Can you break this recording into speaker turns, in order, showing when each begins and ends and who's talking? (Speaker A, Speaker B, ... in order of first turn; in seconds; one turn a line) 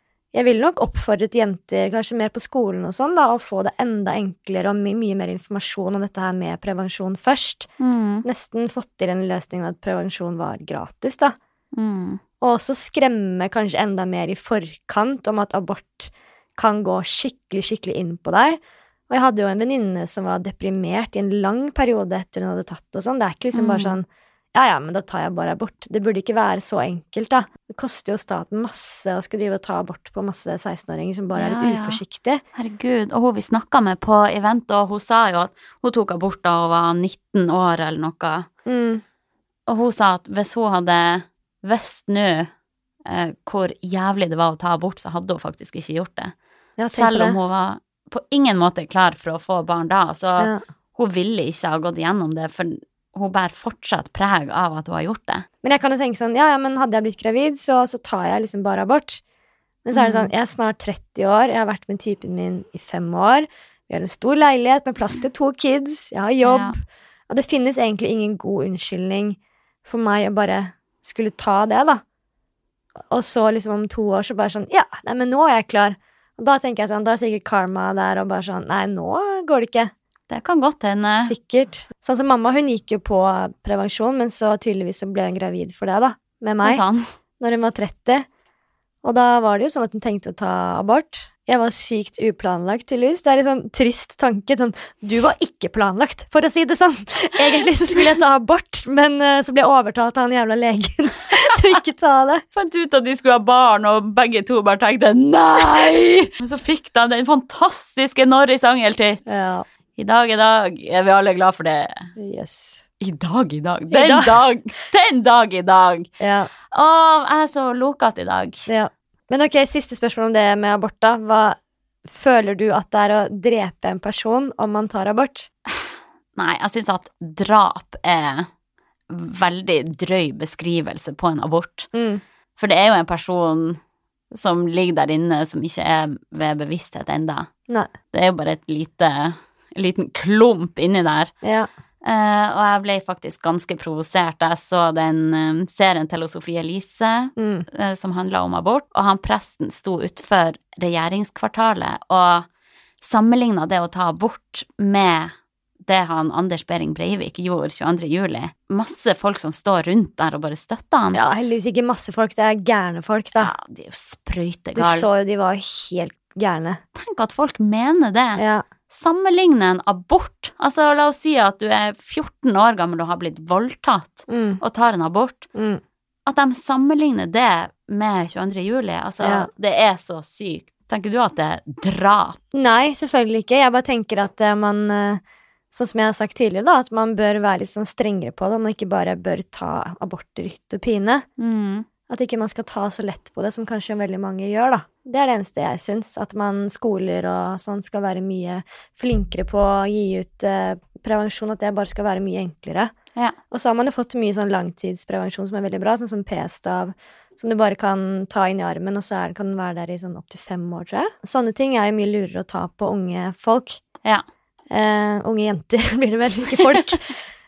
Speaker A: 0.3-7.7
Speaker B: 7.8-8.3
Speaker A: 8.2-11.3
Speaker B: 11.7-12.2
Speaker A: 12.4-18.6
Speaker A: 19.1-32.4
Speaker B: 23.5-24.0
Speaker B: 31.4-32.0
Speaker B: 32.5-38.5
Speaker A: 38.6-39.0
Speaker B: 39.7-42.5
Speaker B: 43.1-46.3
Speaker A: 46.8-47.4
Speaker B: 46.9-55.5
Speaker A: 55.6-59.2
Speaker A: 59.9-66.8
Speaker B: 59.9-60.3
Speaker B: 66.4-66.8
Speaker A: 67.3-72.0
Speaker A: 73.1-79.9
Speaker B: 80.3-81.3
Speaker A: 81.1-86.8
Speaker B: 86.6-87.1
Speaker A: 87.4-88.3
Speaker A: 89.0-102.4
Speaker B: 102.5-112.1
Speaker A: 109.3-109.6
Speaker A: 112.2-112.8
Speaker B: 113.0-116.1
Speaker A: 113.9-114.4
Speaker A: 116.2-116.5
Speaker B: 116.7-118.7
Speaker A: 118.7-125.5
Speaker B: 125.7-128.5
Speaker B: 129.1-131.9
Speaker A: 131.9-132.2
Speaker B: 132.6-133.8
Speaker B: 134.3-137.5
Speaker B: 138.1-141.3
Speaker A: 141.4-141.7
Speaker B: 142.0-152.5
Speaker A: 147.4-147.7
Speaker B: 153.0-155.3
Speaker B: 155.9-161.2
Speaker A: 161.1-163.5
Speaker B: 163.4-165.1
Speaker A: 164.8-166.8
Speaker B: 166.9-175.5
Speaker A: 168.4-168.6
Speaker A: 174.3-174.6
Speaker A: 175.5-175.8
Speaker B: 176.3-182.4
Speaker A: 179.2-179.5
Speaker A: 182.5-185.2
Speaker A: 185.7-191.2
Speaker B: 191.4-191.9
Speaker A: 192.1-202.9
Speaker A: 203.5-213.8
Speaker A: 214.7-217.2